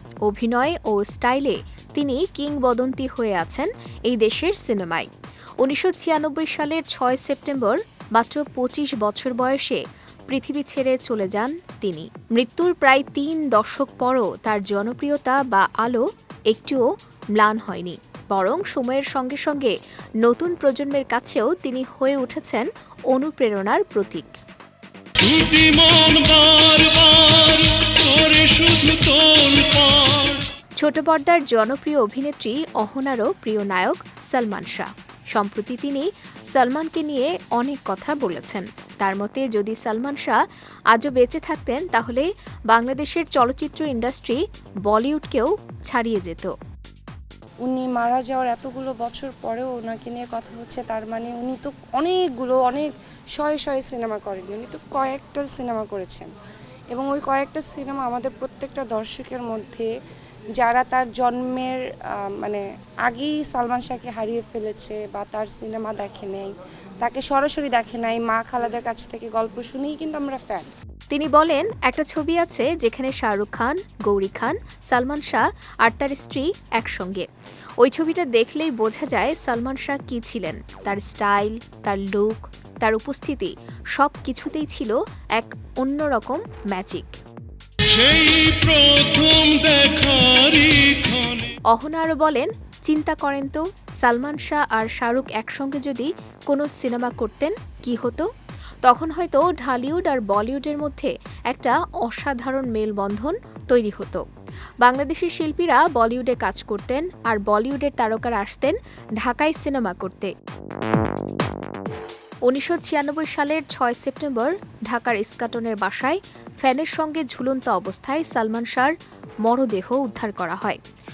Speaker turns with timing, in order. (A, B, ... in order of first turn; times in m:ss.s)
0:00.2-0:05.1 A
0:05.6-0:16.8 A
0:17.4-0:24.3 A
0:25.2-0:30.4 B
0:30.8-0:40.4 A
0:40.9-0:46.5 A
0:47.6-0:56.3 C
0:56.9-0:59.9 C
1:00.6-1:10.7 C
1:11.1-1:17.3 A
1:17.8-1:27.1 A
1:27.9-1:31.5 B
1:31.7-1:38.3 A
1:38.8-1:44.2 A
1:44.8-1:50.3 A
1:52.5-1:58.9 A
1:59.4-2:00.8 A